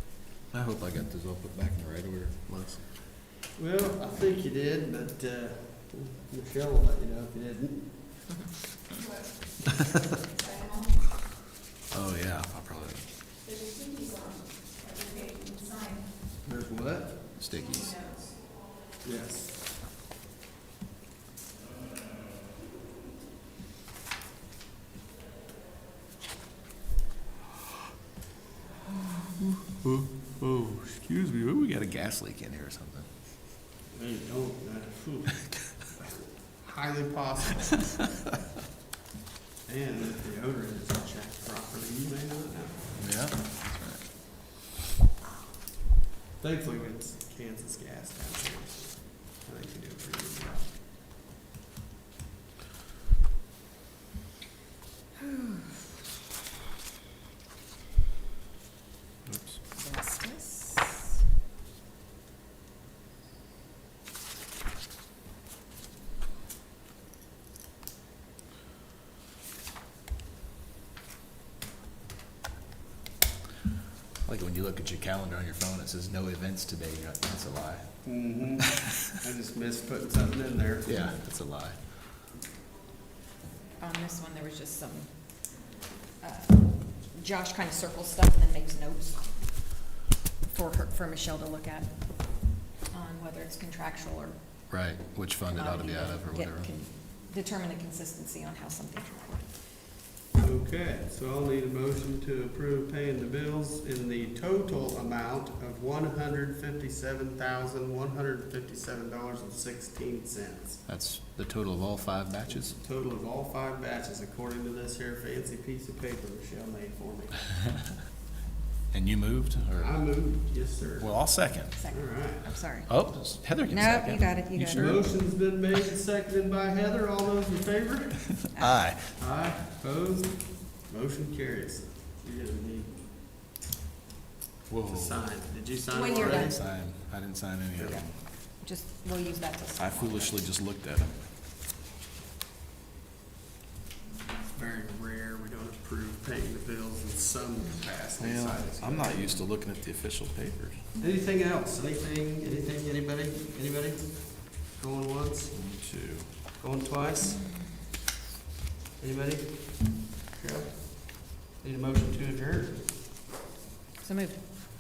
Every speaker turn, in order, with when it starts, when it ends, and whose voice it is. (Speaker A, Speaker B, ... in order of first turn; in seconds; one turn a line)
Speaker A: 0.5-2.9
Speaker B: 3.6-8.2
Speaker A: 11.9-13.1
Speaker B: 16.4-17.3
Speaker A: 17.4-18.1
Speaker B: 19.0-19.6
Speaker A: 30.5-33.1
Speaker B: 33.9-36.0
Speaker B: 36.6-38.0
Speaker B: 39.7-43.0
Speaker A: 43.0-44.0
Speaker B: 46.4-50.7
Speaker A: 59.3-59.6
Speaker C: 59.7-61.0
Speaker A: 74.2-78.0
Speaker B: 78.0-81.0
Speaker A: 80.9-81.8
Speaker C: 83.8-85.1
Speaker C: 86.2-89.5
Speaker C: 90.5-94.4
Speaker A: 94.7-96.7
Speaker C: 95.5-99.5
Speaker B: 100.3-110.8
Speaker A: 110.9-112.8
Speaker B: 112.5-117.5
Speaker A: 118.9-120.0
Speaker B: 119.8-122.6
Speaker A: 121.0-121.8
Speaker C: 121.8-122.9
Speaker A: 122.9-125.0
Speaker C: 123.7-125.0
Speaker B: 124.7-128.4
Speaker C: 128.5-128.8
Speaker A: 128.6-129.1
Speaker B: 129.1-133.1
Speaker A: 134.7-135.2
Speaker B: 134.9-136.6
Speaker C: 135.9-136.6
Speaker A: 136.2-138.1
Speaker B: 137.8-138.0
Speaker C: 137.8-140.4
Speaker A: 139.8-141.2
Speaker B: 144.5-149.4
Speaker A: 148.2-150.8
Speaker B: 151.0-155.5
Speaker A: 155.5-156.3
Speaker B: 156.6-157.5
Speaker B: 159.0-162.9
Speaker C: 164.0-164.4